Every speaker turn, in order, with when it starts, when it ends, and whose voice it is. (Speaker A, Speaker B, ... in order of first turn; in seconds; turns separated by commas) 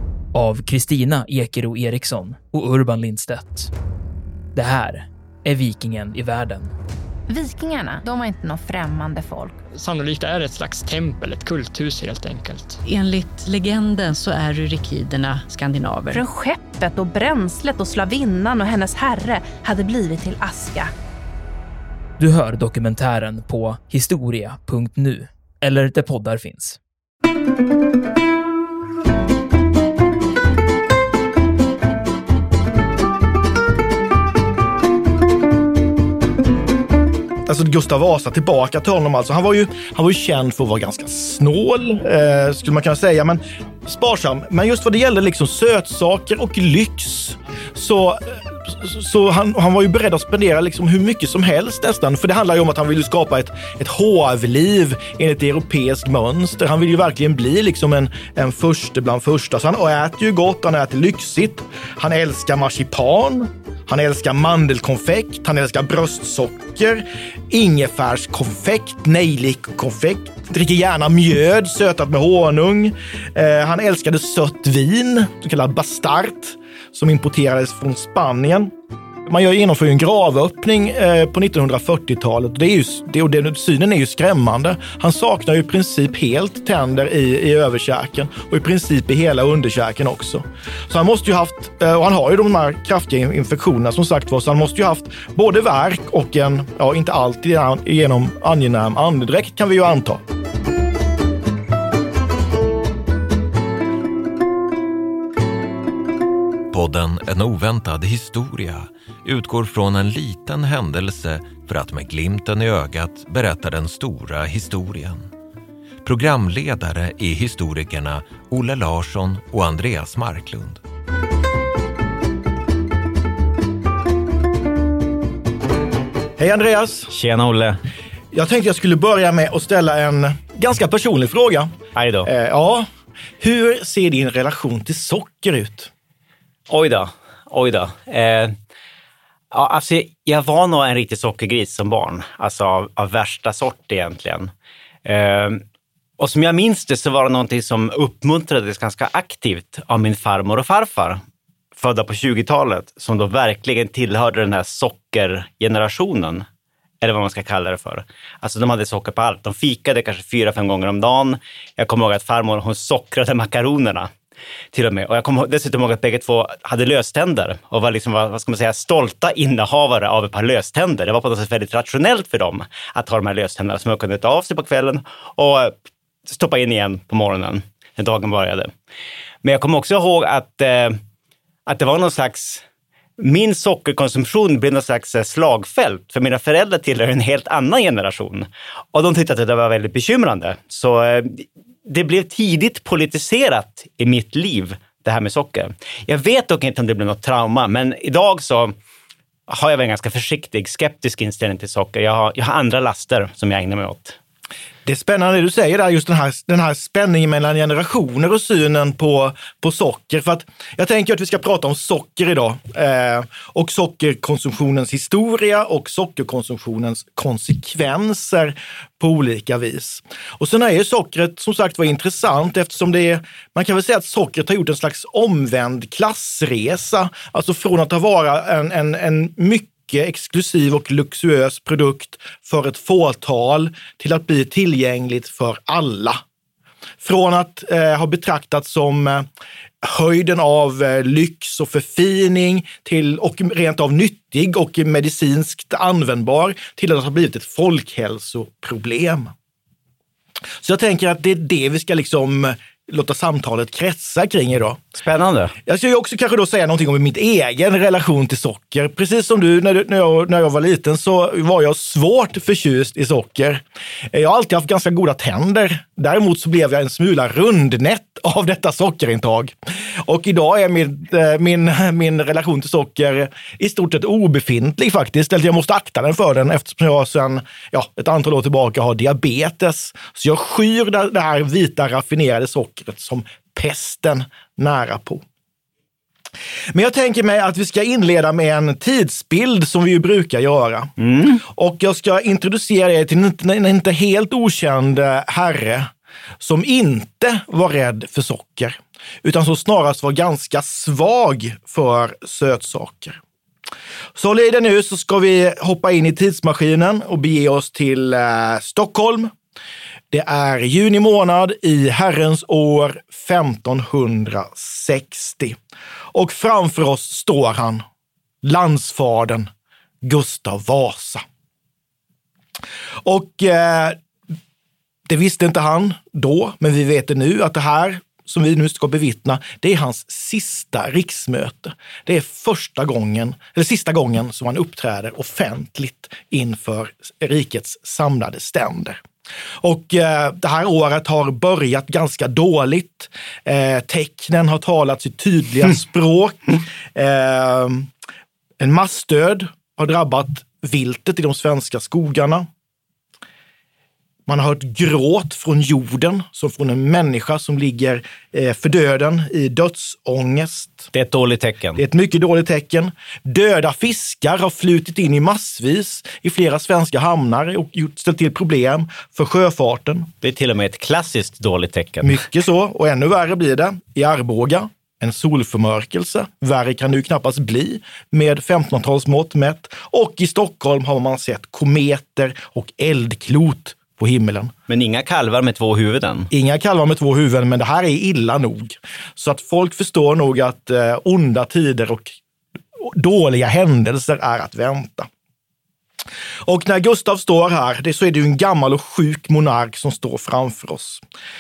Speaker A: 0.3-3.7, Speaker A: 4.5-6.7, Speaker B: 7.3-9.6, Speaker C: 9.7-12.8, Speaker D: 12.8-16.2, Speaker B: 16.1-20.9, Speaker A: 22.2-26.8, Speaker E: 37.5-78.7, Speaker E: 79.2-100.2, Speaker F: 106.7-115.3, Speaker F: 116.0-120.8, Speaker E: 126.4-127.1, Speaker G: 127.1-127.8, Speaker E: 128.3-131.7, Speaker G: 132.0-132.3, Speaker E: 132.2-132.9, Speaker E: 133.4-135.9, Speaker G: 136.7-138.6, Speaker G: 139.5-144.5, Speaker G: 145.1-145.6, Speaker G: 146.2-151.2, Speaker G: 151.8-156.5, Speaker G: 157.0-164.1, Speaker G: 164.7-178.7, Speaker G: 179.4-181.0, Speaker G: 181.7-182.6, Speaker G: 183.2-198.8, Speaker G: 199.5-204.2, Speaker E: 204.8-236.2, Speaker E: 237.0-239.3, Speaker E: 239.8-249.3, Speaker E: 250.6-254.8, Speaker G: 255.0-255.5, Speaker E: 255.7-285.2, Speaker E: 286.7-290.9, Speaker G: 291.0-291.4, Speaker E: 291.5-303.2, Speaker E: 304.2-309.3, Speaker E: 310.1-315.6, Speaker E: 316.1-317.9, Speaker E: 318.4-319.5, Speaker E: 320.0-321.2, Speaker E: 323.0-324.0, Speaker E: 325.1-339.0, Speaker E: 339.6-347.9, Speaker E: 348.6-352.5, Speaker E: 354.3-360.9, Speaker G: 360.9-361.8, Speaker E: 361.8-370.1, Speaker G: 370.2-372.2, Speaker E: 372.0-384.5, Speaker G: 384.7-386.3, Speaker E: 386.3-392.2, Speaker E: 392.8-395.1, Speaker E: 396.4-401.0